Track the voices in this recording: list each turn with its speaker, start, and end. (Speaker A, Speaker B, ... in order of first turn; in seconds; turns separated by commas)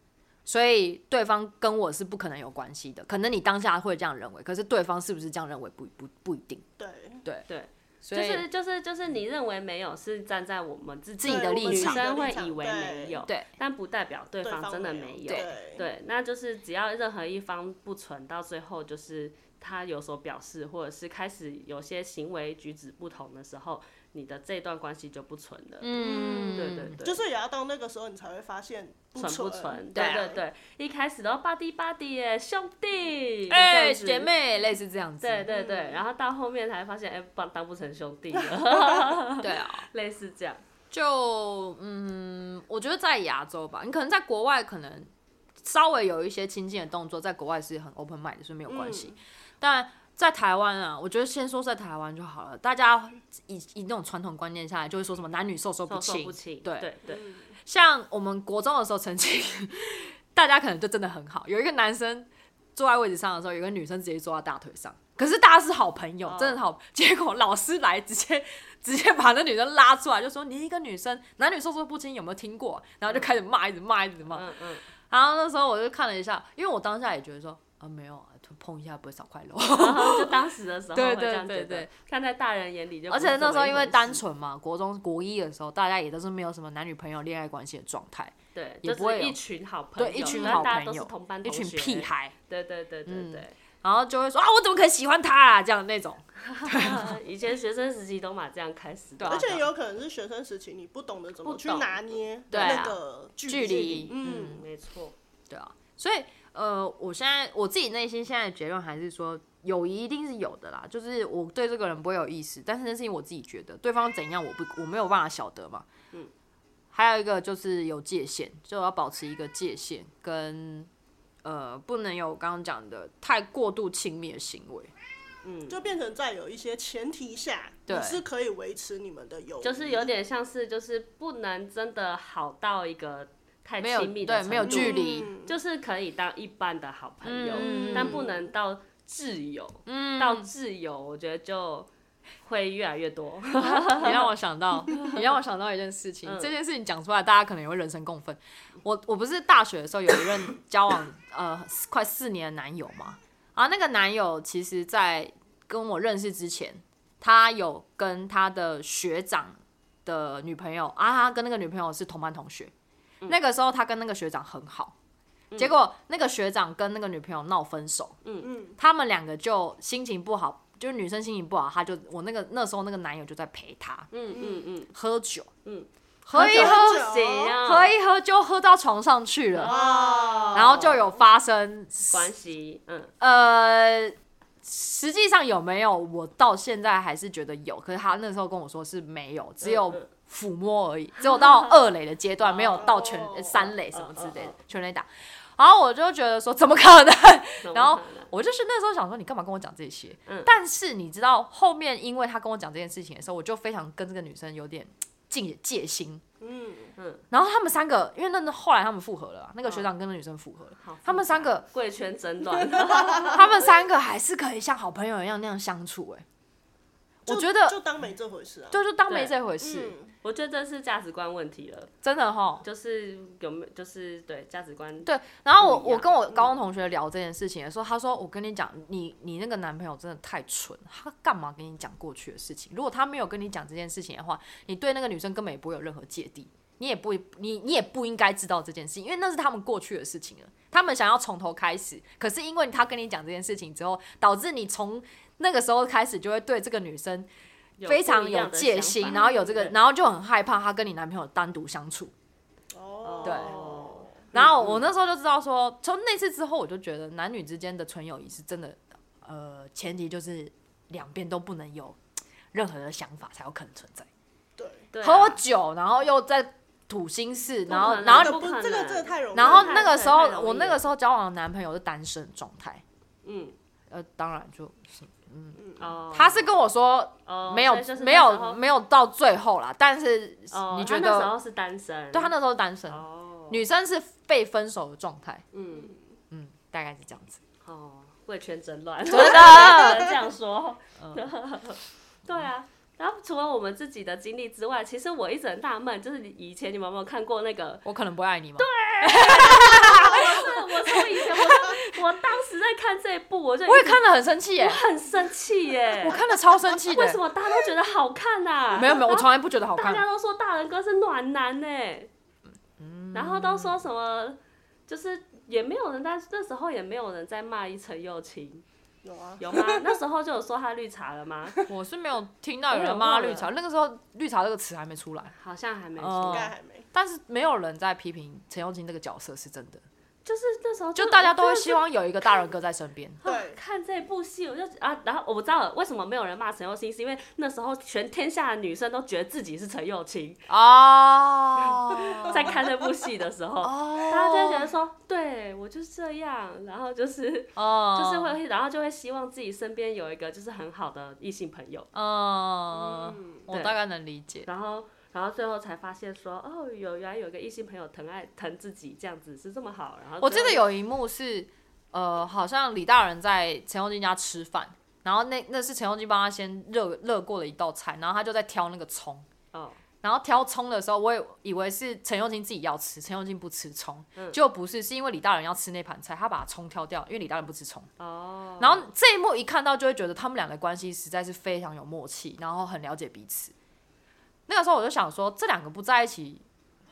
Speaker A: 0.5-6.6, Speaker B: 6.8-7.2, Speaker C: 7.5-25.9, Speaker A: 8.0-8.5, Speaker A: 11.2-12.0, Speaker B: 11.2-13.2, Speaker B: 14.4-15.8, Speaker A: 15.3-15.5, Speaker A: 25.8-27.0, Speaker B: 26.0-30.4, Speaker C: 26.4-27.2, Speaker C: 29.2-34.3, Speaker A: 29.9-30.3, Speaker A: 33.5-35.5, Speaker C: 35.2-40.6, Speaker B: 35.5-36.0, Speaker B: 38.4-39.1, Speaker A: 39.4-39.9, Speaker A: 40.9-56.9, Speaker B: 48.7-49.2, Speaker C: 55.9-57.2, Speaker B: 57.1-57.4, Speaker A: 57.6-74.5, Speaker C: 66.2-66.6, Speaker C: 74.3-74.9, Speaker A: 75.1-80.3, Speaker C: 79.7-84.2, Speaker A: 80.9-81.9, Speaker A: 83.1-89.4, Speaker C: 88.5-93.5, Speaker A: 90.0-92.3, Speaker B: 90.3-90.7, Speaker A: 93.1-97.2, Speaker C: 96.5-99.6, Speaker A: 99.2-99.7, Speaker B: 99.3-104.6, Speaker C: 101.4-102.9, Speaker A: 102.5-104.6, Speaker C: 104.2-105.2, Speaker A: 105.5-115.9, Speaker A: 116.9-120.9, Speaker A: 121.4-124.9, Speaker C: 125.4-125.9, Speaker B: 125.7-130.1, Speaker A: 127.9-128.2, Speaker C: 129.6-141.9, Speaker A: 133.8-135.3, Speaker B: 134.6-135.5, Speaker A: 137.2-138.2, Speaker B: 137.6-138.3, Speaker A: 139.9-140.5, Speaker C: 142.4-144.3, Speaker A: 143.6-162.7, Speaker C: 146.2-146.5, Speaker A: 163.3-164.9, Speaker A: 165.6-168.2, Speaker C: 168.2-168.5, Speaker B: 168.4-168.8, Speaker A: 168.8-174.1, Speaker C: 174.1-174.9, Speaker B: 174.3-174.6, Speaker A: 174.9-175.5, Speaker C: 175.7-177.9, Speaker A: 176.2-179.8, Speaker B: 176.3-177.6, Speaker C: 179.6-181.0, Speaker B: 179.6-180.7, Speaker A: 180.5-182.3, Speaker C: 182.1-183.1, Speaker A: 183.2-206.2, Speaker C: 189.6-190.1, Speaker C: 192.4-192.9, Speaker B: 192.8-193.7, Speaker C: 193.9-194.6, Speaker C: 197.6-198.3, Speaker C: 200.3-200.5, Speaker B: 206.4-206.9, Speaker C: 207.0-207.2, Speaker A: 207.3-211.7, Speaker C: 210.8-213.7, Speaker B: 212.8-213.3, Speaker A: 213.2-216.2, Speaker A: 217.3-217.8, Speaker B: 217.3-218.8, Speaker A: 218.7-220.0, Speaker C: 219.1-219.3, Speaker B: 219.6-220.1, Speaker C: 220.2-221.9, Speaker A: 222.0-222.7, Speaker C: 222.6-226.4, Speaker A: 225.0-247.3, Speaker C: 247.8-249.8, Speaker A: 247.8-252.1, Speaker B: 249.1-249.4, Speaker B: 252.7-254.2, Speaker C: 253.0-254.9, Speaker A: 253.2-253.6, Speaker A: 254.3-262.0, Speaker A: 262.5-264.1, Speaker B: 264.6-264.9, Speaker C: 264.9-265.4, Speaker A: 265.0-268.4, Speaker C: 267.7-270.9, Speaker B: 267.7-269.9, Speaker A: 269.3-272.8, Speaker C: 273.2-273.6, Speaker A: 273.9-281.3, Speaker B: 275.6-275.9, Speaker C: 275.8-276.5, Speaker C: 277.3-278.6, Speaker C: 280.5-282.3, Speaker A: 282.1-285.4, Speaker C: 282.9-283.6, Speaker C: 285.5-285.9, Speaker A: 286.3-287.4, Speaker C: 287.6-297.9, Speaker A: 289.1-290.1, Speaker B: 289.4-289.9, Speaker A: 291.0-291.2, Speaker A: 297.8-302.1, Speaker C: 298.6-304.0, Speaker A: 303.7-304.8, Speaker C: 304.6-312.1, Speaker A: 306.0-307.2, Speaker A: 308.8-310.1, Speaker A: 312.8-313.8, Speaker C: 313.1-318.6, Speaker B: 319.0-320.0, Speaker C: 319.4-321.6, Speaker A: 321.7-325.3, Speaker C: 322.7-323.5, Speaker C: 325.4-326.5, Speaker A: 326.0-329.8, Speaker B: 326.3-326.9, Speaker C: 330.2-331.8, Speaker A: 331.0-333.2, Speaker C: 333.2-340.4, Speaker B: 333.2-333.6, Speaker A: 340.5-342.6, Speaker C: 341.7-351.9, Speaker A: 343.6-344.7, Speaker A: 347.6-348.4, Speaker A: 351.9-354.5, Speaker B: 352.8-353.4, Speaker C: 353.5-353.8, Speaker C: 354.5-360.6, Speaker A: 360.2-369.3, Speaker C: 369.5-369.8, Speaker A: 370.0-377.9, Speaker C: 378.0-378.9, Speaker A: 378.6-383.5, Speaker A: 384.5-386.4